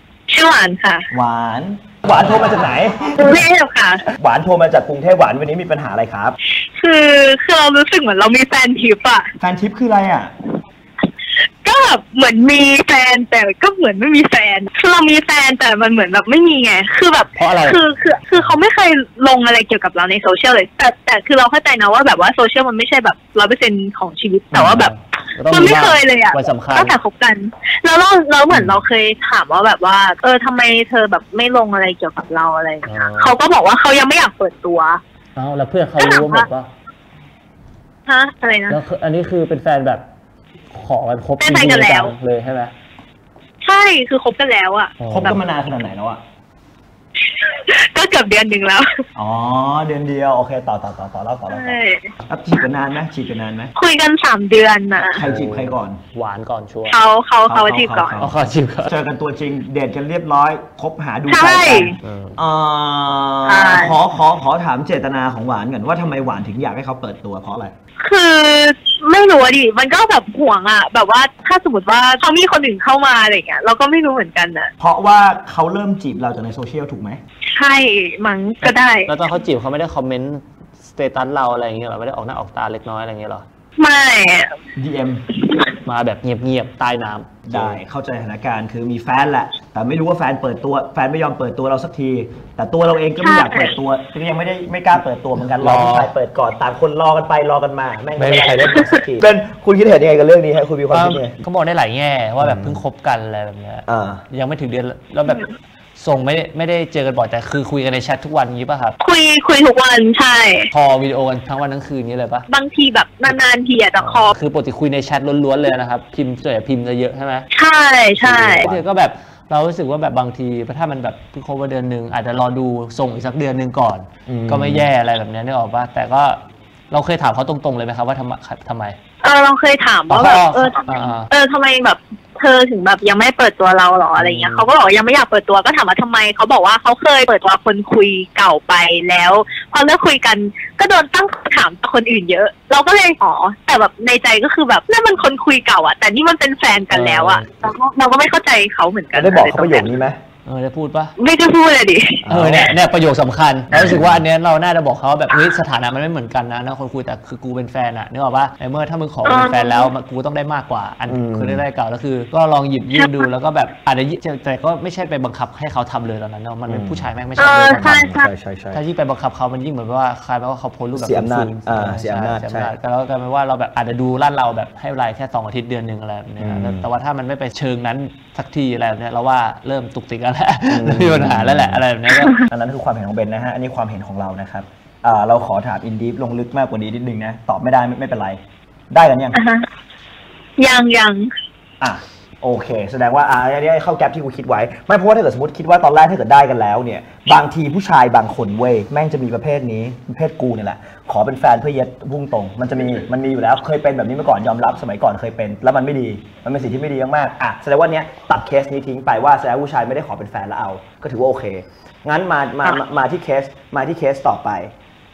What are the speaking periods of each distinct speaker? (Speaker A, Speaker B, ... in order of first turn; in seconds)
Speaker A: 0.3-1.1, 3.2-4.0, 6.7-9.3, 11.6-24.9, 25.5-35.0, 36.0-36.5, 38.1-38.8, 41.4-42.1, 43.6-45.4, 47.4-48.9, 51.5-52.1, 53.8-55.2, 56.9-58.2, 61.3-62.0, 63.5-64.0, 68.0-74.7, 77.5-79.1, 83.8-84.6, 85.4-85.7, 93.2-93.8, 109.0-110.7, 112.5-114.3, 117.5-118.7, 129.2-149.9, 151.2-152.3, 159.2-159.9, 162.9-163.2, 167.4-168.3, 189.3-189.7, 190.6-191.3
Speaker B: 1.1-3.4, 4.2-6.4, 9.4-10.3, 45.1-46.2, 49.2-53.7, 55.1-56.0, 57.5-67.7, 74.8-77.2, 84.8-85.2, 87.5-101.4, 102.4-102.8, 103.9-104.2, 118.2-118.8, 124.3-124.9, 149.1-150.2, 152.2-152.8, 153.7-154.2, 161.1-161.6, 166.7-167.1, 167.8-168.8, 171.0-172.7, 176.4-176.9, 180.7-181.8, 182.5-188.4, 188.9-189.4, 191.8-214.7
Speaker C: 17.4-18.6, 24.5-27.0, 28.5-28.8, 32.9-33.4, 35.4-36.7, 38.7-40.0, 40.7-42.7, 45.0-45.4, 55.2-57.0, 58.2-58.9, 62.0-62.4, 78.6-83.5, 85.8-87.8, 95.6-96.1, 98.2-99.0, 100.9-105.5, 106.0-109.0, 110.7-112.5, 114.0-117.5, 118.3-126.4, 126.9-129.0, 130.1-131.3, 134.2-134.7, 146.9-147.5, 150.4-151.1, 152.3-168.1, 168.7-182.3